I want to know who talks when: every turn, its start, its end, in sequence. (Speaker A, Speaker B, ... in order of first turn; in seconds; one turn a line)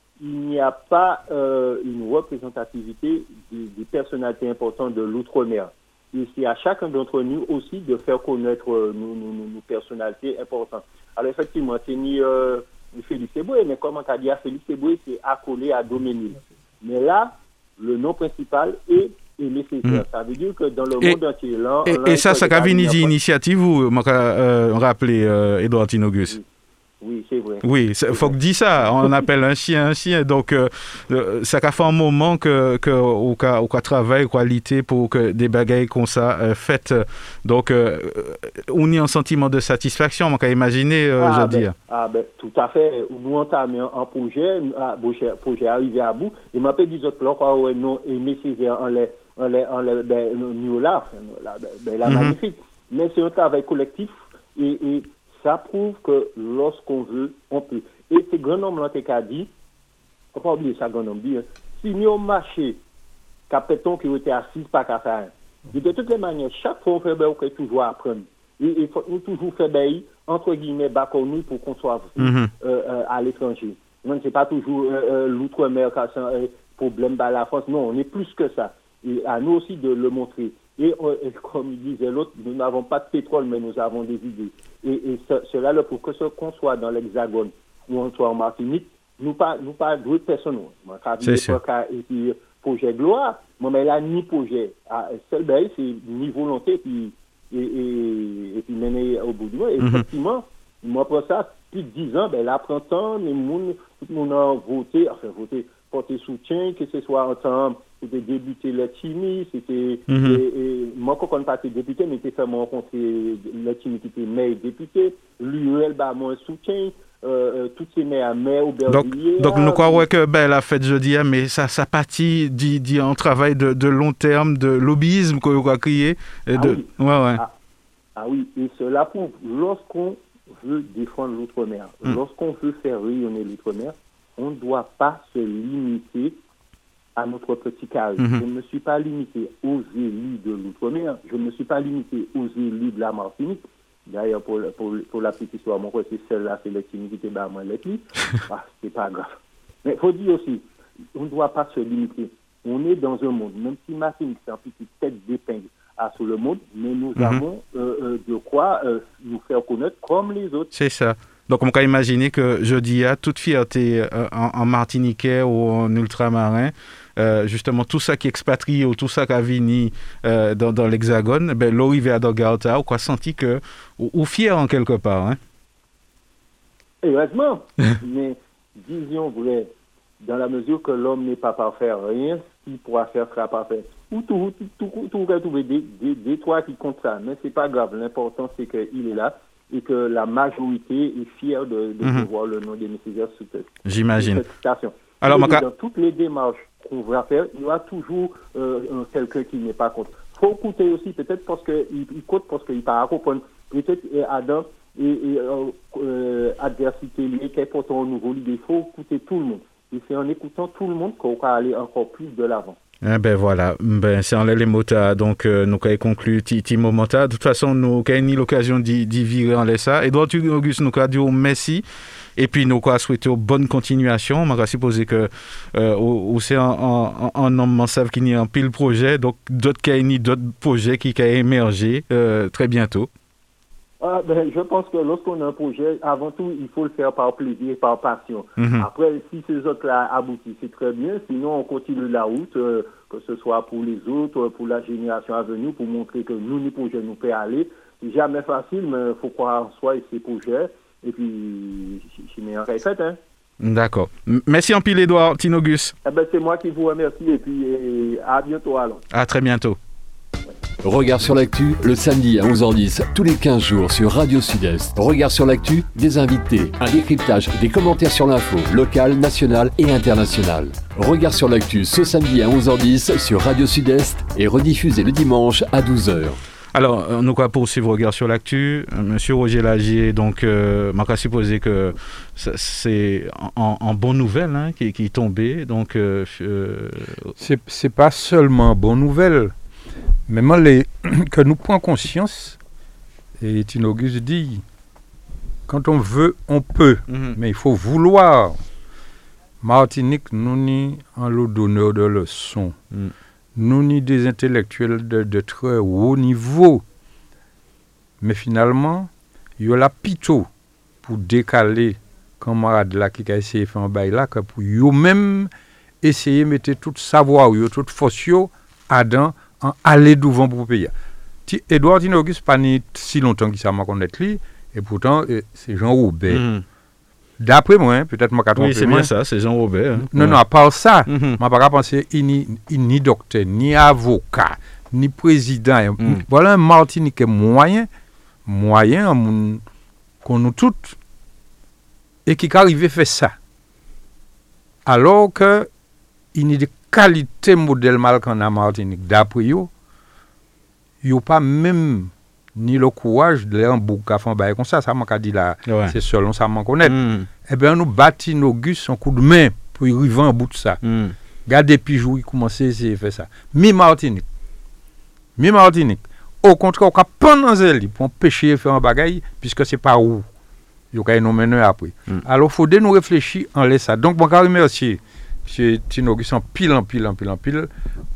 Speaker A: 0.2-23.1
Speaker B: 21.8-26.4
Speaker A: 27.0-28.3
Speaker B: 27.6-41.7
Speaker A: 41.2-59.5
Speaker B: 52.0-52.4
Speaker A: 60.3-62.8
Speaker A: 63.5-120.0
Speaker B: 72.2-72.5
Speaker B: 91.2-91.6
Speaker B: 99.8-100.0
Speaker B: 110.1-110.4
Speaker B: 118.9-127.4
Speaker A: 126.6-127.5
Speaker A: 128.2-136.4
Speaker A: 137.2-160.7
Speaker B: 138.2-138.4
Speaker B: 157.2-157.4
Speaker B: 160.7-175.4
Speaker A: 177.0-212.8
Speaker B: 192.0-192.3
Speaker B: 193.8-194.4
Speaker B: 195.2-195.7
Speaker B: 213.0-221.8
Speaker B: 222.4-233.1
Speaker A: 234.0-253.2
Speaker B: 238.6-238.9
Speaker B: 253.6-255.9
Speaker A: 256.0-259.0
Speaker B: 259.1-259.8
Speaker C: 260.8-276.4
Speaker B: 276.7-287.3
Speaker D: 287.4-289.5
Speaker D: 290.3-292.6
Speaker D: 293.4-294.6
Speaker D: 295.7-298.6
Speaker B: 297.1-297.4
Speaker D: 299.6-302.7
Speaker D: 303.6-306.8
Speaker D: 308.2-310.5
Speaker D: 311.0-315.5
Speaker D: 316.0-320.9
Speaker D: 321.5-326.4
Speaker B: 326.3-326.6
Speaker D: 327.4-329.1
Speaker B: 328.6-330.4
Speaker D: 330.0-337.9
Speaker B: 331.1-331.4
Speaker D: 338.4-339.6
Speaker D: 340.2-341.0
Speaker D: 342.2-343.3
Speaker D: 344.8-345.7
Speaker D: 346.3-349.7
Speaker D: 351.0-360.8
Speaker B: 355.7-355.9
Speaker B: 356.8-357.3
Speaker B: 360.8-361.1
Speaker D: 361.4-364.2
Speaker D: 365.4-370.2
Speaker D: 370.9-377.7